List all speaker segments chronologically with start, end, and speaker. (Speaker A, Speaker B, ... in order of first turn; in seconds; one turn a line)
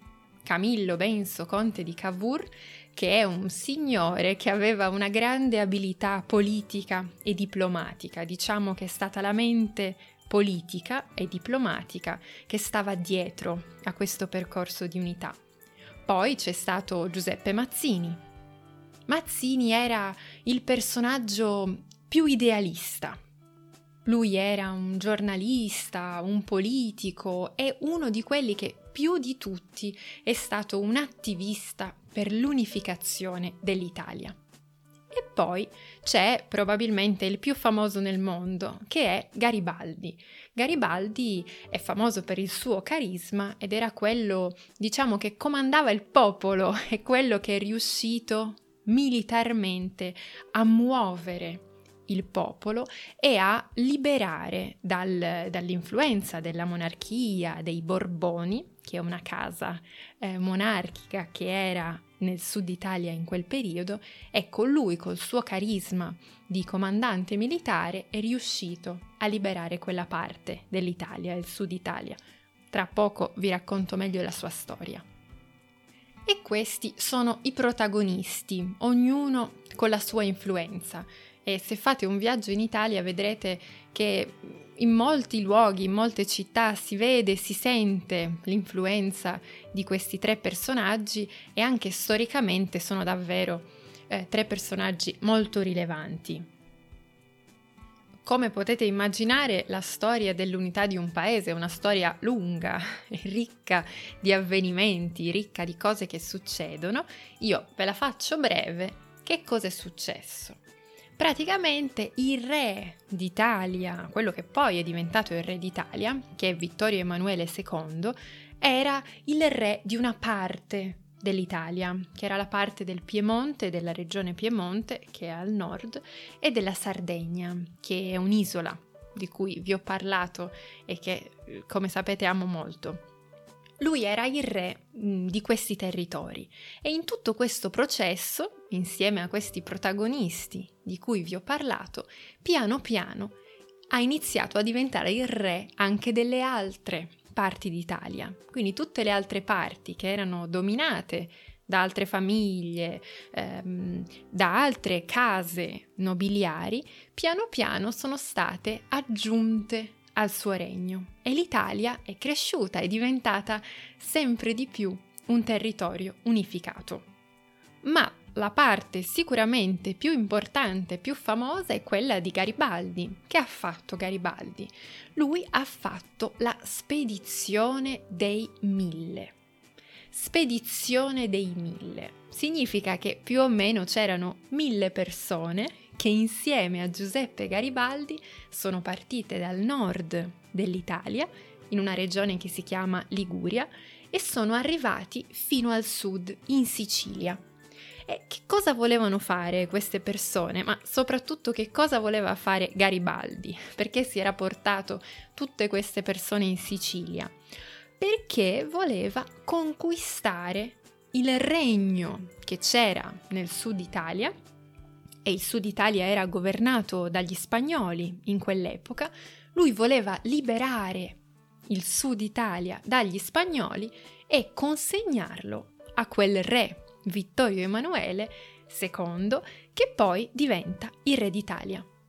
Speaker A: 0.4-15.4
Speaker A: 16.1-18.2
Speaker A: 19.1-23.2
Speaker A: 24.0-34.4
Speaker A: 35.1-72.2
Speaker A: 72.7-75.0
Speaker A: 76.2-96.5
Speaker A: 98.2-110.6
Speaker A: 111.2-133.0
Speaker A: 133.8-143.4
Speaker A: 143.9-167.1
Speaker A: 167.8-179.3
Speaker A: 180.1-197.4
Speaker A: 198.1-207.3
Speaker A: 208.0-214.3
Speaker A: 215.2-231.9